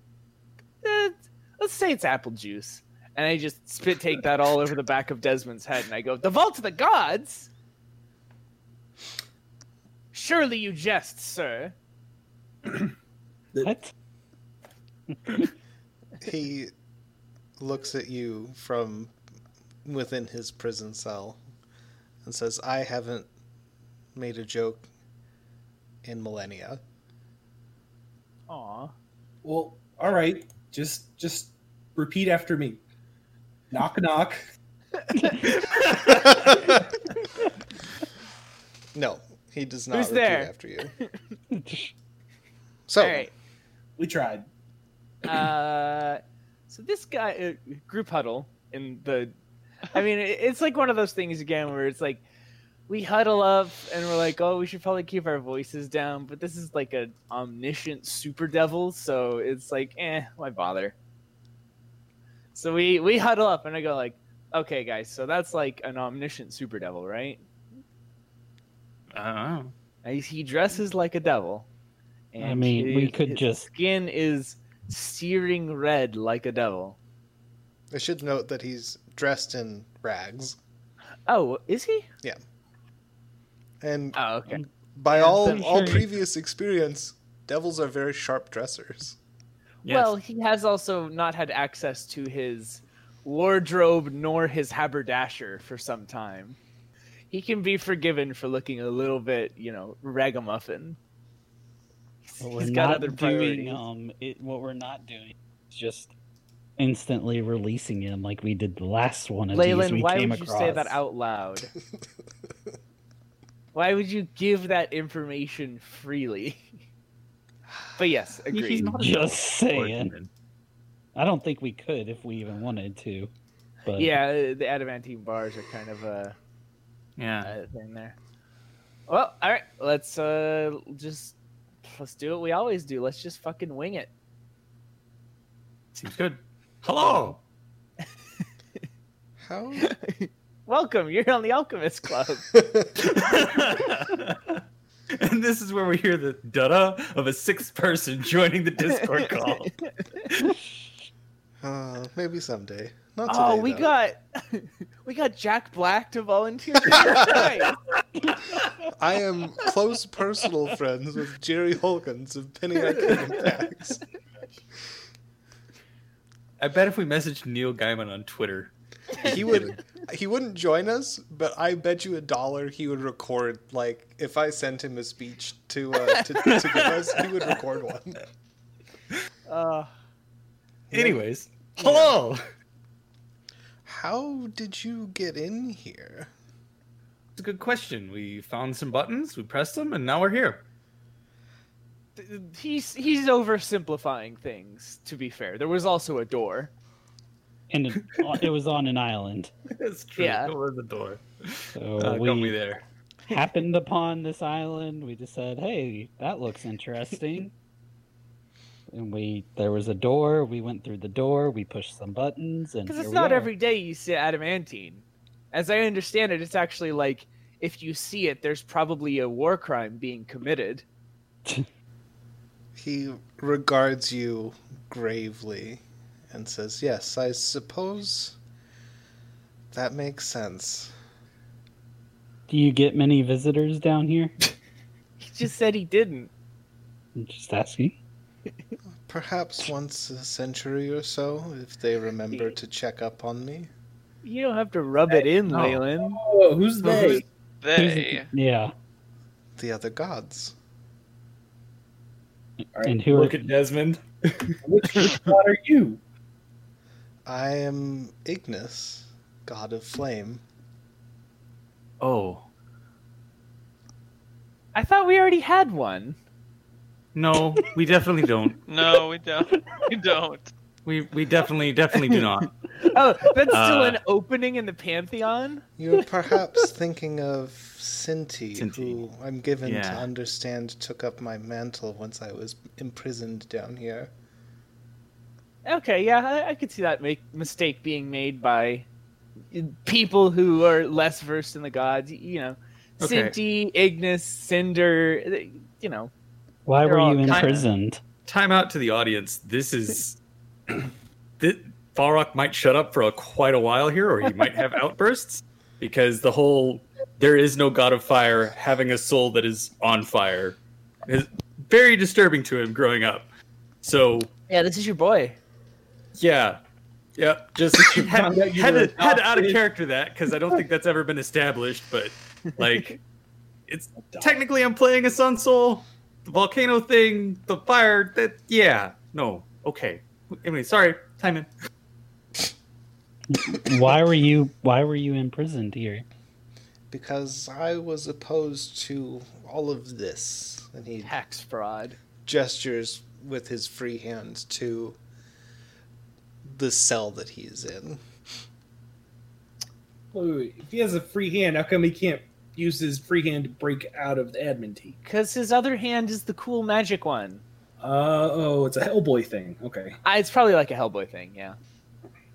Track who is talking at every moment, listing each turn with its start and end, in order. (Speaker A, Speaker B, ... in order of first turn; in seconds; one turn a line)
Speaker A: 0.8-7.5
Speaker A: 10.1-11.7
Speaker B: 13.6-13.9
Speaker B: 15.1-15.5
Speaker C: 16.2-16.7
Speaker C: 17.6-19.1
Speaker C: 19.8-21.4
Speaker C: 22.2-23.3
Speaker C: 24.1-24.9
Speaker C: 26.0-26.8
Speaker A: 28.5-28.9
Speaker D: 29.4-32.8
Speaker D: 33.7-34.4
Speaker A: 35.0-35.5
Speaker C: 36.3-36.5
Speaker C: 38.9-40.9
Speaker A: 39.9-40.5
Speaker B: 41.5-41.9
Speaker C: 42.9-43.3
Speaker A: 43.0-43.3
Speaker D: 44.0-44.5
Speaker A: 45.2-49.3
Speaker A: 49.9-52.2
Speaker A: 52.9-61.0
Speaker A: 62.5-67.4
Speaker E: 69.1-69.7
Speaker A: 70.0-71.7
Speaker A: 72.3-77.0
Speaker B: 72.4-73.7
Speaker C: 77.9-80.6
Speaker A: 81.2-82.1
Speaker C: 83.8-84.2
Speaker A: 84.1-86.0
Speaker C: 84.9-89.2
Speaker B: 85.3-86.0
Speaker E: 89.8-90.1
Speaker A: 89.8-96.6
Speaker A: 97.3-101.0
Speaker A: 102.3-103.8
Speaker B: 102.4-106.1
Speaker B: 106.8-111.0
Speaker A: 109.5-111.7
Speaker A: 113.7-116.6
Speaker A: 118.0-118.9
Speaker E: 118.5-120.3
Speaker B: 118.8-120.1
Speaker B: 121.1-123.3
Speaker B: 123.9-124.1
Speaker A: 123.9-126.3
Speaker E: 127.2-127.5
Speaker A: 127.4-128.2
Speaker A: 129.1-134.1
Speaker E: 135.9-137.4
Speaker C: 139.4-139.9
Speaker A: 139.8-142.5
Speaker C: 142.5-142.9
Speaker E: 143.1-144.6
Speaker E: 145.1-149.7
Speaker C: 151.6-153.9
Speaker A: 153.3-157.8
Speaker C: 156.9-157.5
Speaker C: 158.9-164.0
Speaker A: 162.9-163.2
Speaker E: 166.6-169.8
Speaker C: 169.2-178.2
Speaker E: 176.5-176.8
Speaker A: 179.5-179.9
Speaker C: 180.9-181.2
Speaker E: 180.9-182.4
Speaker C: 181.8-182.1
Speaker C: 183.8-186.3
Speaker E: 187.3-190.6
Speaker A: 192.2-196.7
Speaker B: 197.7-199.5
Speaker E: 199.7-202.8
Speaker A: 200.2-200.5
Speaker B: 201.7-202.5
Speaker B: 203.3-207.5
Speaker B: 208.9-213.5
Speaker A: 212.8-220.8
Speaker C: 222.8-228.3
Speaker C: 229.7-230.9
Speaker B: 232.5-234.3
Speaker A: 235.2-236.3
Speaker B: 237.2-238.0
Speaker C: 239.0-243.7
Speaker A: 244.2-246.2
Speaker E: 245.5-245.8
Speaker D: 246.1-247.2
Speaker E: 246.8-247.2
Speaker F: 247.6-248.3
Speaker B: 247.8-248.7
Speaker C: 249.6-250.5
Speaker D: 252.7-253.1
Speaker B: 252.8-253.5
Speaker E: 253.1-254.0
Speaker D: 254.6-256.0
Speaker C: 257.2-260.4
Speaker E: 262.0-262.4
Speaker A: 264.7-266.2
Speaker E: 267.1-268.6
Speaker F: 268.7-270.5
Speaker E: 270.8-272.5
Speaker A: 272.8-275.6
Speaker E: 273.5-274.0
Speaker C: 275.8-284.1
Speaker E: 278.5-279.0
Speaker E: 279.6-280.1
Speaker A: 285.6-288.9
Speaker A: 289.5-296.1
Speaker E: 293.0-293.4
Speaker B: 296.6-298.0
Speaker A: 296.8-297.7
Speaker E: 297.3-297.6
Speaker E: 298.2-300.2
Speaker E: 301.4-313.3
Speaker E: 313.8-314.3
Speaker A: 314.5-315.4
Speaker E: 316.2-316.6
Speaker E: 317.2-323.0
Speaker D: 317.6-319.6
Speaker E: 323.7-331.5
Speaker D: 323.9-324.4
Speaker B: 333.3-336.0
Speaker C: 336.9-341.2
Speaker A: 341.0-342.0
Speaker C: 342.2-345.0
Speaker C: 346.4-348.0
Speaker D: 350.1-355.0
Speaker A: 355.0-357.4
Speaker D: 357.8-360.0
Speaker A: 360.0-361.6